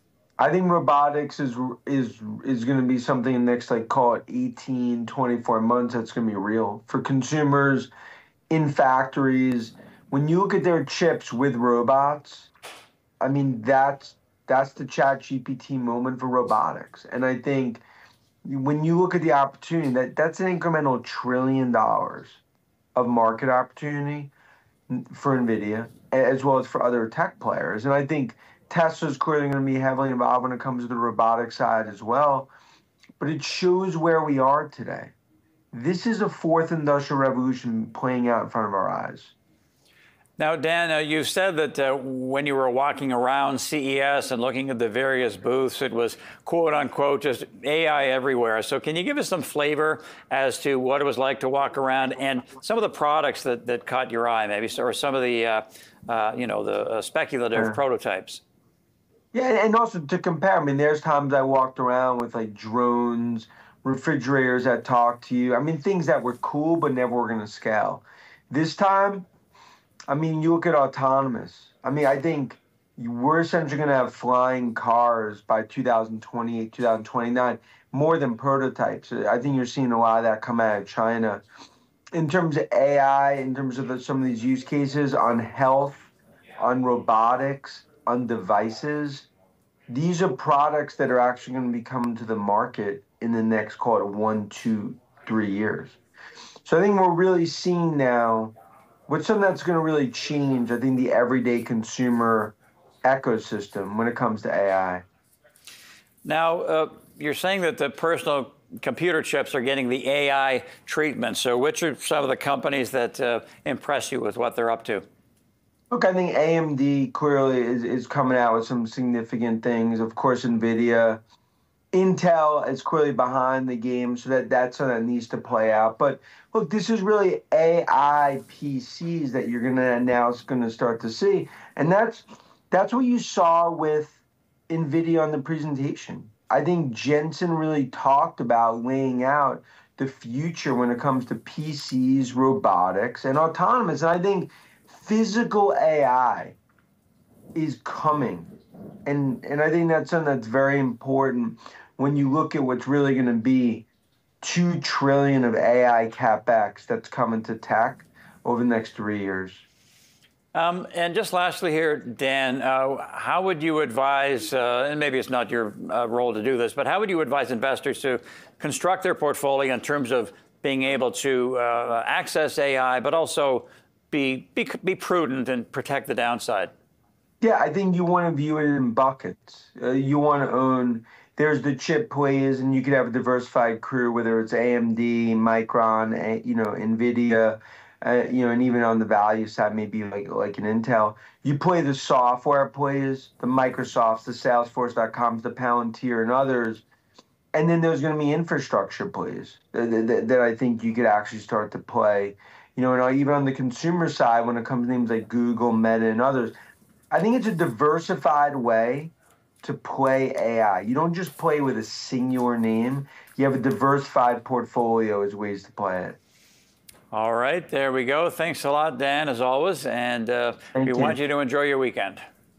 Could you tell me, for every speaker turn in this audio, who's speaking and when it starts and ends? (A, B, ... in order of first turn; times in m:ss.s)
0:00.4-0:07.9 A
0:08.5-0:12.5 A
0:13.2-0:17.8 A
0:18.5-0:22.4 A
0:23.0-0:24.3 A
0:24.9-0:32.5 A
0:33.2-0:35.1 A
0:35.7-0:39.3 A
0:40.4-0:58.4 B
0:59.3-1:09.3 A
1:10.1-1:21.4 A
1:22.1-1:29.3 A
1:29.9-1:36.0 A
1:36.6-1:38.6 A
1:39.1-1:45.0 A
1:46.2-1:55.0 B
1:55.9-2:01.2 A
2:01.9-2:26.6 A
2:27.6-2:28.5 A
2:29.1-2:33.9 A
2:34.4-2:39.6 A
2:40.5-2:56.7 B
2:57.4-3:16.8 A
3:17.5-3:26.5 A
3:27.1-3:36.2 A
3:37.1-3:42.2 B
3:40.8-3:41.2 A